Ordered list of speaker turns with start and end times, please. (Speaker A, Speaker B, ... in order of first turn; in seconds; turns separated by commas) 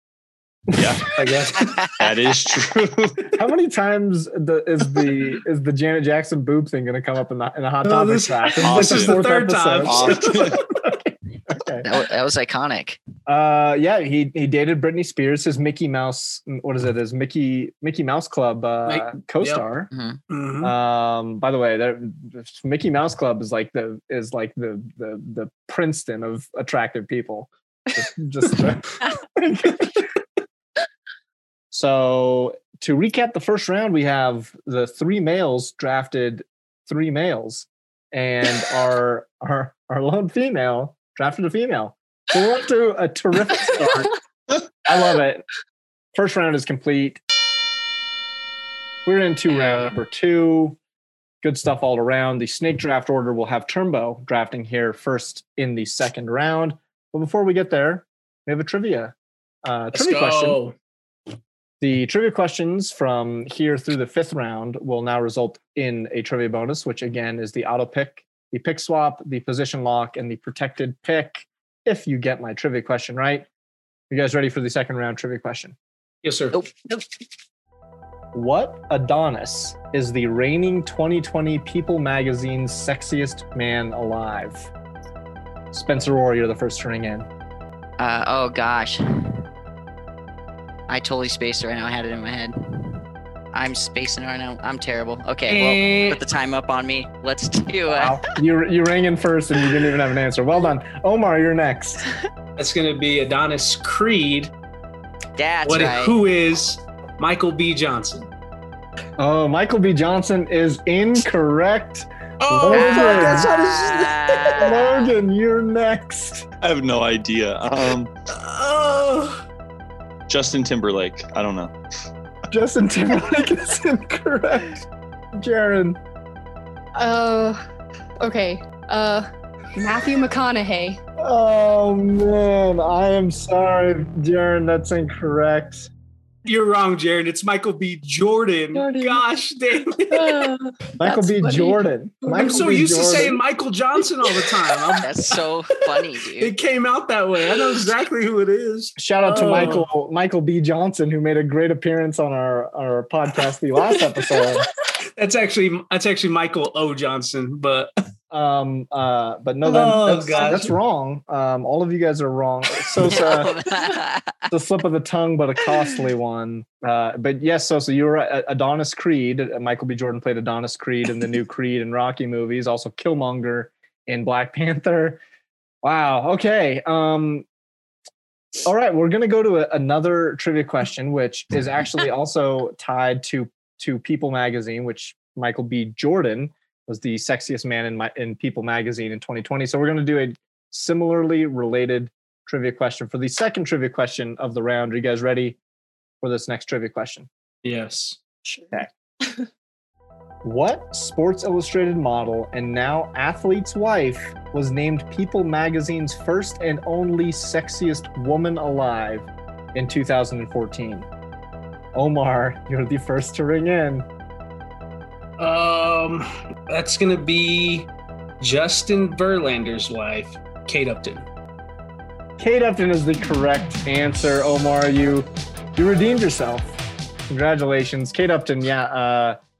Speaker A: 0.7-1.2, Speaker B: 1.1-1.8, Speaker A: 1.9-3.4, Speaker C: 3.3-11.9, Speaker B: 7.8-10.6, Speaker A: 8.6-9.2, Speaker A: 9.8-10.6, Speaker D: 11.8-13.0, Speaker C: 13.2-19.9, Speaker B: 18.9-19.6, Speaker D: 19.9-20.2, Speaker B: 20.3-20.7, Speaker C: 20.6-30.1, Speaker C: 31.7-44.1, Speaker C: 44.9-45.5, Speaker C: 46.1-47.2, Speaker C: 49.1-50.8, Speaker C: 51.4-60.6, Speaker B: 59.9-60.7, Speaker C: 61.8-73.5, Speaker C: 74.1-75.8, Speaker B: 76.2-76.6, Speaker C: 78.3-84.7, Speaker C: 85.7-87.3, Speaker D: 88.0-89.0, Speaker D: 90.9-93.0, Speaker D: 93.5-98.2, Speaker B: 95.5-96.2, Speaker C: 97.9-102.0, Speaker B: 102.6-104.5, Speaker D: 105.4-106.2, Speaker B: 105.7-108.3, Speaker C: 109.2-113.8, Speaker B: 112.4-114.6, Speaker D: 112.7-115.1, Speaker C: 114.6-116.5, Speaker A: 116.6-118.1, Speaker B: 118.3-119.4, Speaker A: 120.3-121.7, Speaker C: 122.5-124.8, Speaker C: 125.3-126.0, Speaker E: 127.0-127.6, Speaker E: 128.2-131.0, Speaker C: 131.2-135.9, Speaker B: 136.4-140.5, Speaker E: 138.9-139.2, Speaker E: 140.1-141.8, Speaker C: 141.0-143.4, Speaker B: 142.3-145.1, Speaker D: 145.0-146.5, Speaker B: 145.9-149.9, Speaker C: 149.0-154.7, Speaker B: 155.2-157.9, Speaker C: 158.3-163.5, Speaker B: 159.7-160.7, Speaker D: 163.1-164.4, Speaker C: 164.5-175.2, Speaker C: 175.8-177.4, Speaker C: 178.6-195.6, Speaker C: 196.2-197.3, Speaker B: 197.6-198.2, Speaker E: 198.4-198.7, Speaker C: 200.4-211.1, Speaker C: 211.9-214.1, Speaker B: 215.4-217.9, Speaker B: 218.4-221.2, Speaker C: 222.4-226.8, Speaker C: 227.3-229.4